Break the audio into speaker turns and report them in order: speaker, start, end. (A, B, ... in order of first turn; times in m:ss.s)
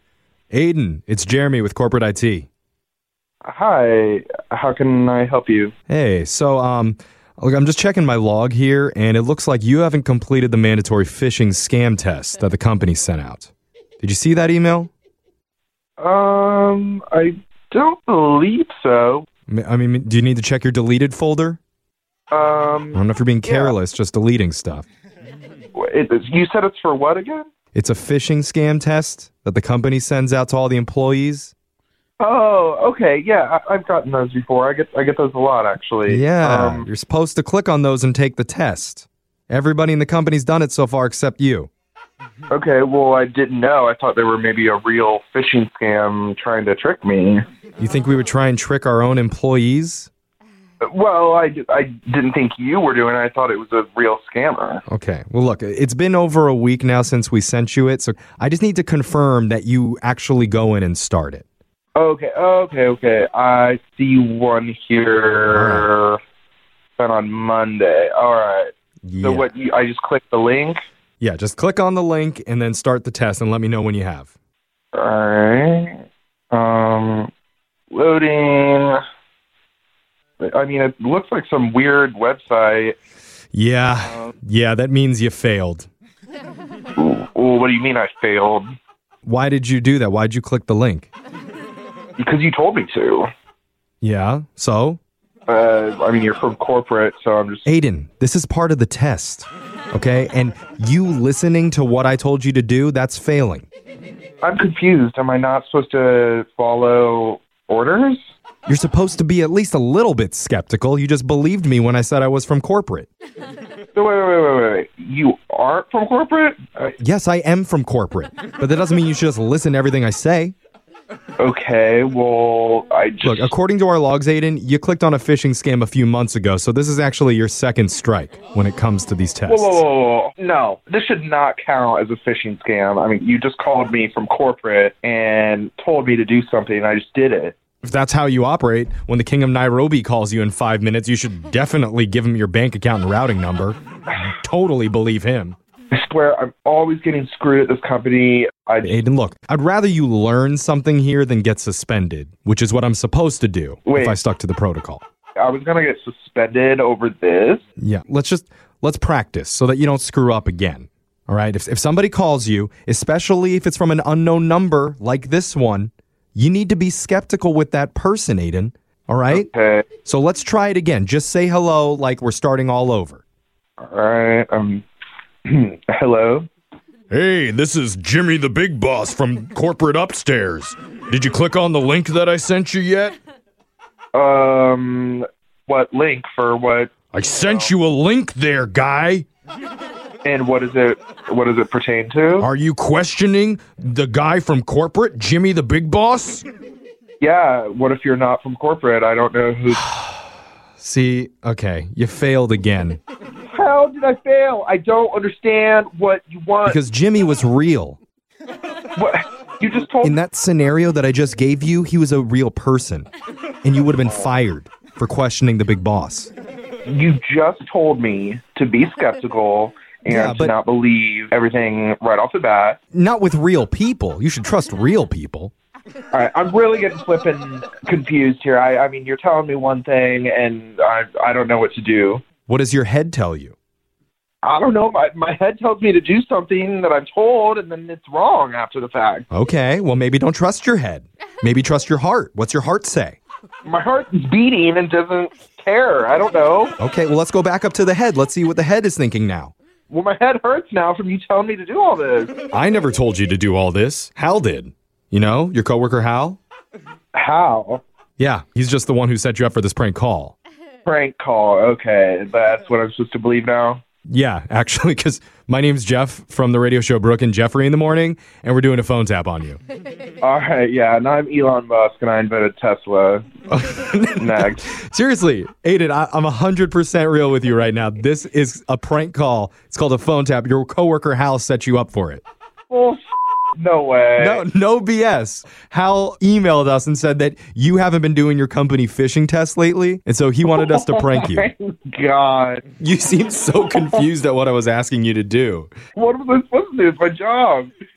0:00.5-0:02.5 A
0:03.4-0:05.7 B
0:05.9-0:14.9 A
0:16.0-0:19.2 B
0:19.5-0:21.6 A
0:22.3-0:23.7 B
0:22.9-0:24.8 A
0:25.8-0:27.5 B
0:27.7-0:31.5 A
0:32.2-0:36.9 B
0:36.1-0:41.7 A
0:42.5-0:47.4 B
0:47.8-0:50.1 A
0:50.8-0:54.8 B
0:54.9-1:01.4 A
1:02.0-1:06.2 B
1:05.5-1:05.9 A
1:07.0-1:08.7 B
1:09.0-1:09.5 A
1:09.2-1:10.8 B
1:11.2-1:14.3 A
1:14.9-1:16.0 B
1:16.5-1:17.3 B
1:17.9-1:19.0 B
1:20.4-1:22.9 B
1:23.5-1:25.9 A
1:24.0-1:24.3 B
1:27.0-1:28.7 B
1:29.2-1:31.1 A
1:32.2-1:33.3 B
1:34.0-1:35.0 A
1:35.5-1:37.7 B
1:37.6-1:43.6 A
1:44.4-1:48.2 B
1:48.7-1:53.1 A
1:53.9-1:57.0 B
1:57.0-2:00.5 A
2:01.4-2:03.5 B
2:03.2-2:09.8 A
2:09.4-2:17.5 B
2:17.8-2:25.6 A
2:25.9-2:29.0 B
2:28.8-2:35.0 A
2:33.8-2:34.1 B
2:35.4-2:37.6 B
2:37.8-2:49.5 A
2:49.3-2:49.8 B
2:50.0-2:53.2 A
2:53.8-2:54.8 B
2:55.4-2:56.5 B
2:57.1-3:03.1 A
3:04.1-3:07.7 B
3:07.1-3:09.2 A
3:10.2-3:12.5 B
3:12.4-3:16.4 A
3:17.2-3:19.9 B
3:20.8-3:23.0 A
3:23.5-3:26.8 B
3:26.6-3:28.0 A
3:29.0-3:30.2 B
3:30.0-3:33.1 A
3:33.6-3:36.3 A
3:36.8-3:42.8 B
3:40.1-3:40.5 A
3:42.9-3:45.5 A
3:46.1-3:52.2 B
3:52.5-3:53.5 A
3:54.4-3:59.2 B
3:59.3-4:03.2 A
4:03.6-4:06.7 B
4:06.8-4:09.5 A
4:09.9-4:12.3 B
4:12.5-4:16.4 A
4:17.1-4:17.8 B
4:18.2-4:20.3 A
4:20.8-4:23.8 B
4:24.1-4:29.6 A
4:30.2-4:33.2 B
4:33.5-4:42.2 A
4:34.2-4:34.7 B
4:42.7-4:43.0 B
4:43.6-4:44.4 B
4:44.2-4:51.5 A
4:50.5-4:52.6 B
4:52.8-4:55.7 A
4:56.0-4:57.7 B